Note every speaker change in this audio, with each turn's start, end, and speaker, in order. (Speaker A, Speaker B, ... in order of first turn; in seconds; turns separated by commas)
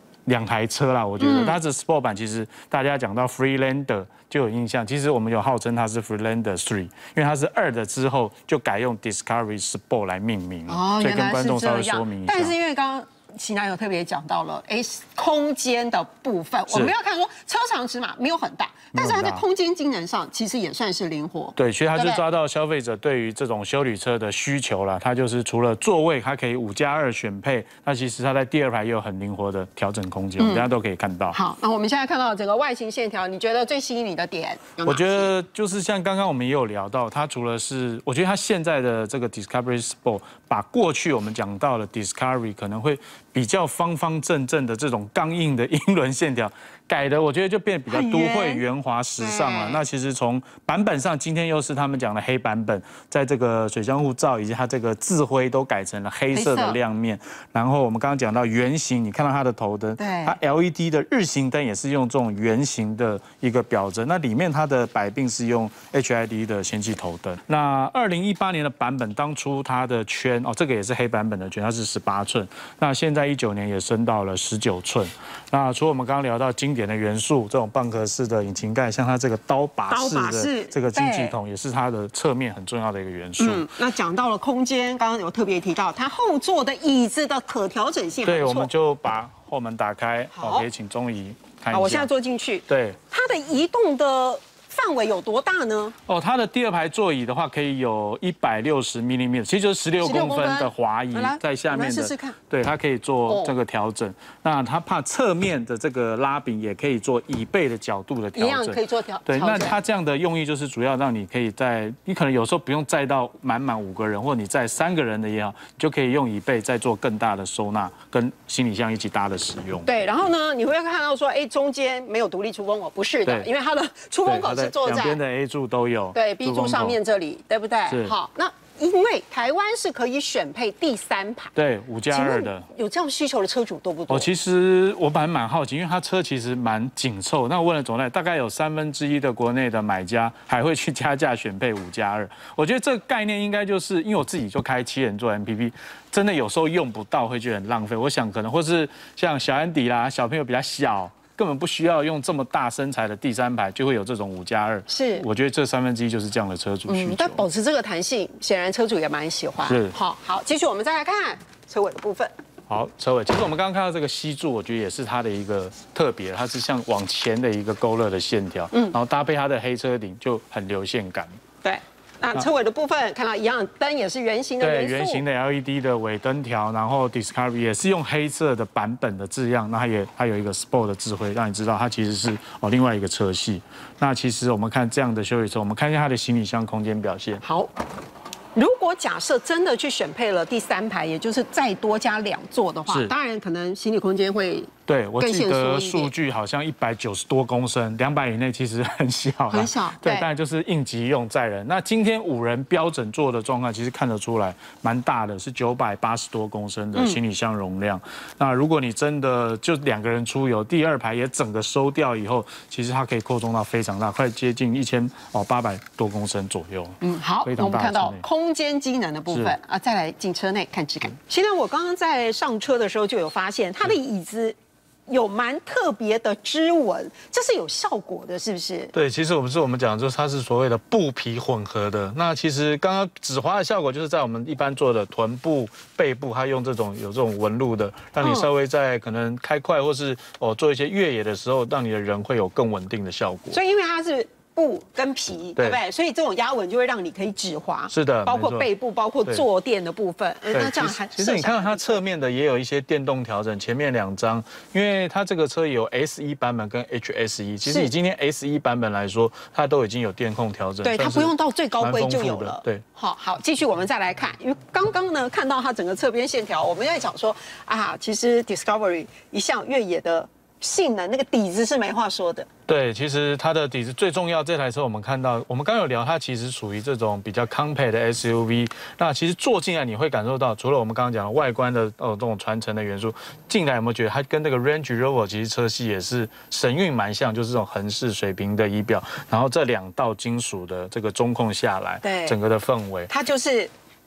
Speaker A: 0.2-12.5, Speaker B: 1.2-1.6, Speaker B: 10.7-22.2, Speaker A: 18.9-19.4, Speaker A: 21.6-31.4, Speaker B: 30.4-30.7, Speaker B: 31.3-35.3, Speaker A: 34.8-83.7, Speaker B: 47.9-48.6, Speaker B: 49.2-49.8, Speaker B: 56.3-56.8, Speaker B: 60.0-60.4, Speaker B: 79.9-81.3, Speaker B: 83.4-88.7, Speaker A: 88.2-92.1, Speaker B: 90.3-90.7, Speaker B: 91.7-95.9, Speaker A: 92.7-93.0, Speaker A: 96.1-120.1, Speaker B: 100.0-102.4, Speaker B: 103.2-103.5, Speaker B: 108.3-109.8, Speaker B: 119.8-125.2, Speaker A: 124.2-127.0, Speaker B: 126.1-131.5, Speaker A: 127.9-128.1, Speaker A: 131.6-132.7, Speaker B: 132.1-134.3, Speaker A: 134.1-157.4, Speaker B: 154.9-155.2, Speaker B: 156.9-162.3, Speaker A: 159.6-160.0, Speaker A: 162.7-171.3, Speaker B: 171.6-175.2, Speaker A: 174.6-187.4, Speaker B: 187.4-187.7, Speaker B: 188.6-196.1, Speaker A: 194.9-218.2, Speaker B: 199.5-200.3, Speaker B: 217.0-224.6, Speaker A: 219.3-219.6, Speaker B: 225.1-228.9, Speaker A: 228.9-243.6, Speaker B: 238.2-238.5, Speaker B: 243.5-252.0, Speaker A: 247.9-248.7, Speaker A: 250.5-262.8, Speaker B: 257.6-257.9, Speaker B: 260.8-272.5, Speaker A: 272.7-293.1, Speaker B: 292.0-292.4, Speaker B: 293.1-293.7